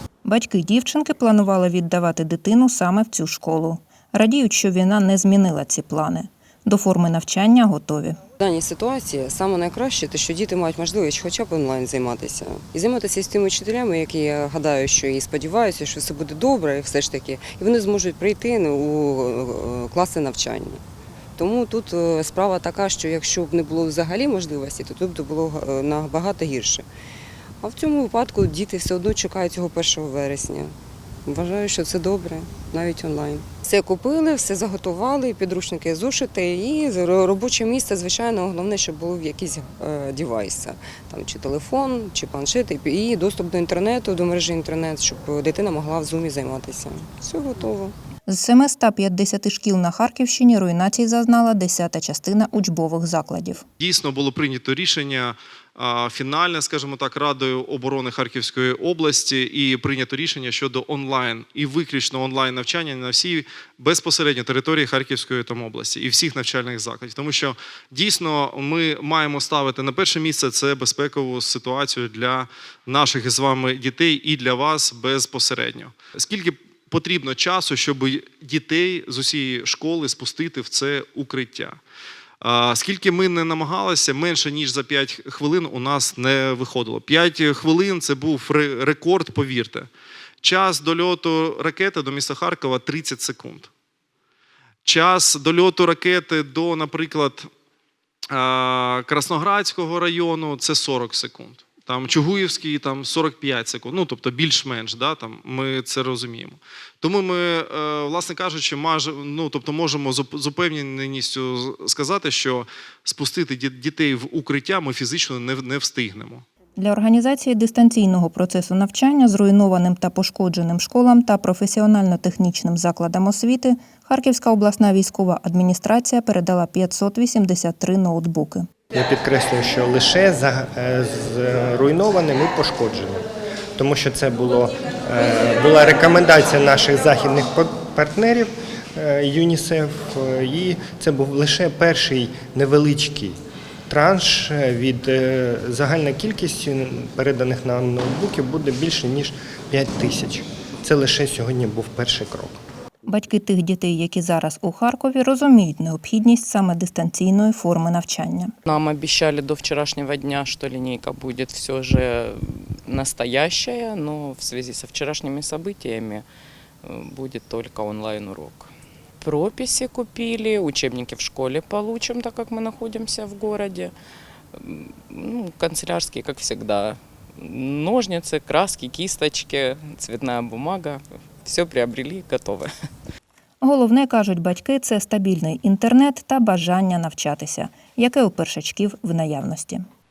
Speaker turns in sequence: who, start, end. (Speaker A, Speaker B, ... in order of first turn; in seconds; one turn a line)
Speaker A: 0.2-8.2
Speaker B: 8.4-20.8
Speaker B: 21.4-26.9
Speaker B: 27.6-30.7
Speaker B: 31.3-47.9
Speaker A: 48.3-53.6
Speaker C: 53.8-81.8
Speaker C: 82.4-89.9
Speaker C: 90.4-93.7
Speaker C: 94.8-97.5
Speaker C: 98.3-116.5
Speaker A: 116.8-128.7
Speaker D: 128.9-133.2
Speaker D: 133.8-143.3
Speaker D: 143.9-152.6
Speaker A: 153.1-158.5
Speaker E: 158.7-166.3
Speaker E: 166.8-168.7
Speaker E: 169.2-173.9
Speaker E: 174.5-182.7
Speaker A: 183.6-189.8